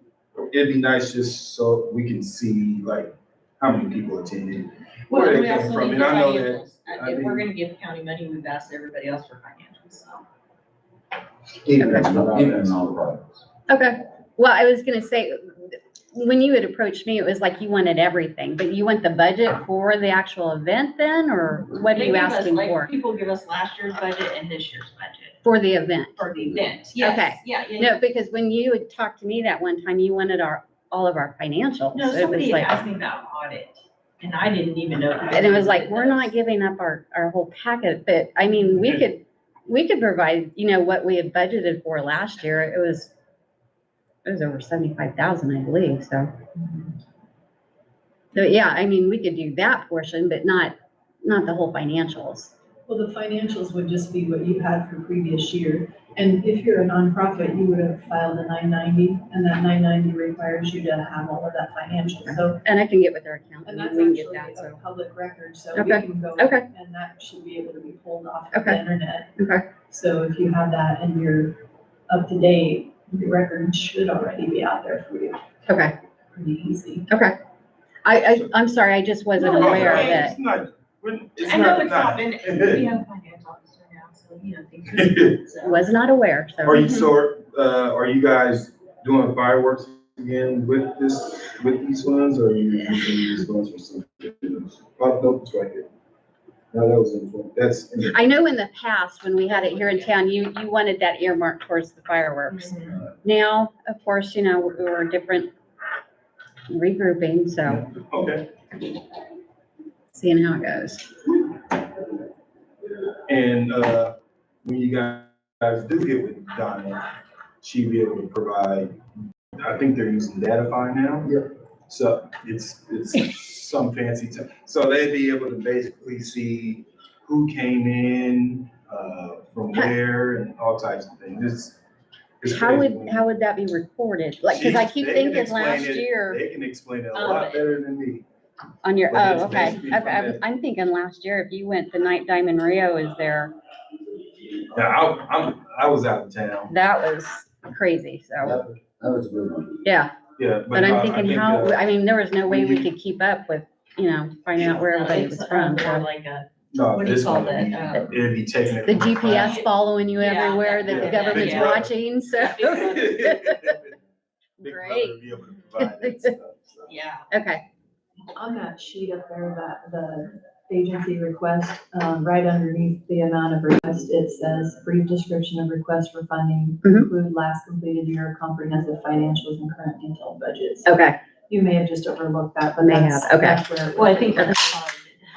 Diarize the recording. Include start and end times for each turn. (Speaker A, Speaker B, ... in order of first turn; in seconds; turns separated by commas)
Speaker A: 0.5-7.5, Speaker B: 5.1-10.2, Speaker C: 11.6-13.4, Speaker D: 11.8-12.3, Speaker A: 12.1-12.6, Speaker D: 13.7-22.9, Speaker B: 21.9-25.4, Speaker D: 25.4-26.2, Speaker B: 26.2-27.9, Speaker D: 26.9-32.8, Speaker B: 31.9-36.3, Speaker D: 35.3-43.1, Speaker D: 44.2-46.3, Speaker D: 48.3-52.5, Speaker E: 52.9-62.6, Speaker D: 62.3-64.8, Speaker E: 63.6-75.5, Speaker D: 65.8-66.6, Speaker D: 68.5-68.8, Speaker D: 69.4-69.7, Speaker D: 75.7-75.9, Speaker E: 76.3-77.1, Speaker D: 77.1-77.4, Speaker D: 78.0-80.3, Speaker B: 79.4-80.3, Speaker A: 79.5-82.9, Speaker B: 81.4-85.9, Speaker A: 84.9-85.4, Speaker D: 85.6-87.1, Speaker A: 86.6-95.9, Speaker A: 96.7-98.2, Speaker D: 98.1-105.5, Speaker B: 102.5-103.0, Speaker D: 106.7-107.8, Speaker A: 107.6-108.5, Speaker D: 110.1-111.1, Speaker A: 113.3-117.0, Speaker A: 117.6-119.0, Speaker A: 119.6-131.8, Speaker A: 132.4-133.2, Speaker D: 132.4-136.4, Speaker A: 134.5-138.2, Speaker B: 137.1-137.6, Speaker D: 138.8-143.5, Speaker A: 139.1-140.4, Speaker A: 144.7-146.7, Speaker D: 146.7-148.6, Speaker C: 148.4-149.8, Speaker D: 149.8-150.1, Speaker A: 150.4-151.8, Speaker D: 150.7-156.1, Speaker A: 152.5-152.9, Speaker B: 154.6-158.1, Speaker A: 156.7-159.6, Speaker D: 158.8-163.8, Speaker B: 159.3-161.8, Speaker A: 160.8-161.9, Speaker B: 162.4-163.1, Speaker A: 162.6-163.9, Speaker D: 164.6-165.2, Speaker A: 164.6-166.9, Speaker D: 165.8-166.3, Speaker B: 166.9-167.2, Speaker D: 167.3-167.6, Speaker E: 168.3-180.9, Speaker D: 176.8-177.1, Speaker D: 180.8-181.2, Speaker E: 181.5-184.7, Speaker D: 182.8-183.6, Speaker B: 183.9-185.2